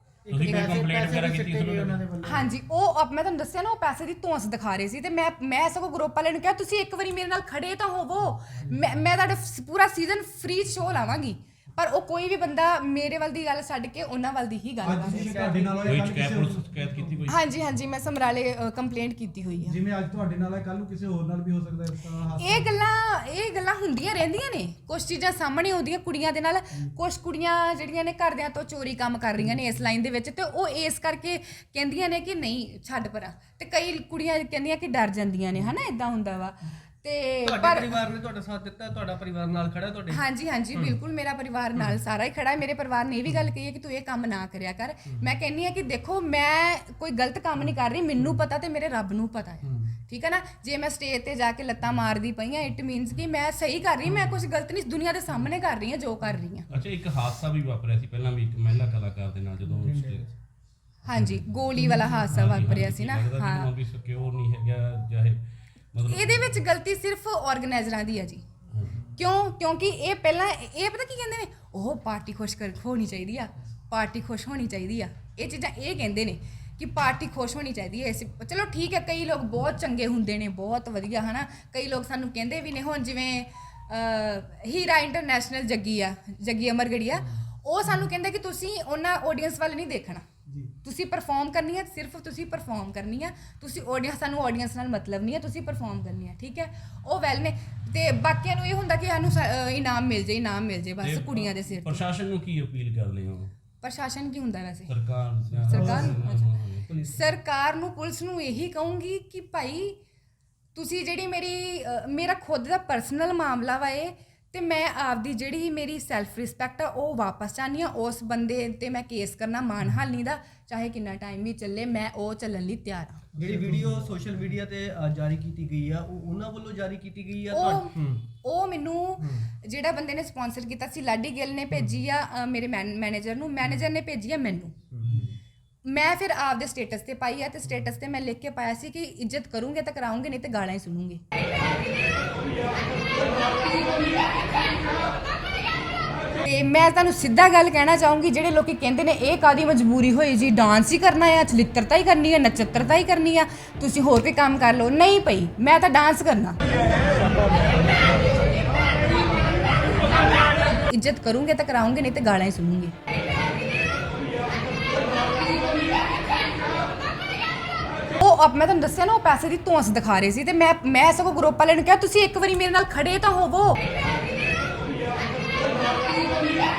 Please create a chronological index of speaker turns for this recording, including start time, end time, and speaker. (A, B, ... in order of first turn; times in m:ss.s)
0:00.3-0:01.3 A
0:00.3-0:02.1 B
0:00.3-0:02.4 C
0:02.2-0:15.6 D
0:14.8-0:16.8 C
0:14.8-0:16.1 A
0:15.9-0:17.4 B
0:17.3-0:19.8 D
0:19.7-0:22.7 C
0:22.4-0:38.0 D
0:37.4-0:40.2 A
0:40.1-0:56.7 D
0:49.6-0:49.9 A
0:56.7-1:00.3 B
0:59.8-1:00.2 C
1:01.0-1:03.7 D
1:01.1-1:01.6 B
1:02.2-1:05.4 B
1:05.9-1:06.6 B
1:06.0-1:08.4 D
1:09.2-1:30.2 D
1:30.8-1:42.0 D
1:41.0-1:43.5 B
1:43.8-1:44.9 D
1:44.9-1:46.9 B
1:45.6-1:46.2 A
1:45.7-1:46.5 D
1:46.9-1:47.2 A
1:47.0-1:50.0 D
1:50.7-2:03.2 D
2:03.3-2:08.2 A
2:03.4-2:04.2 C
2:07.5-2:14.7 D
2:09.2-2:09.4 A
2:14.9-2:15.3 A
2:15.8-2:21.2 D
2:26.4-2:36.6 D
2:40.9-2:42.9 D
2:48.2-2:53.8 D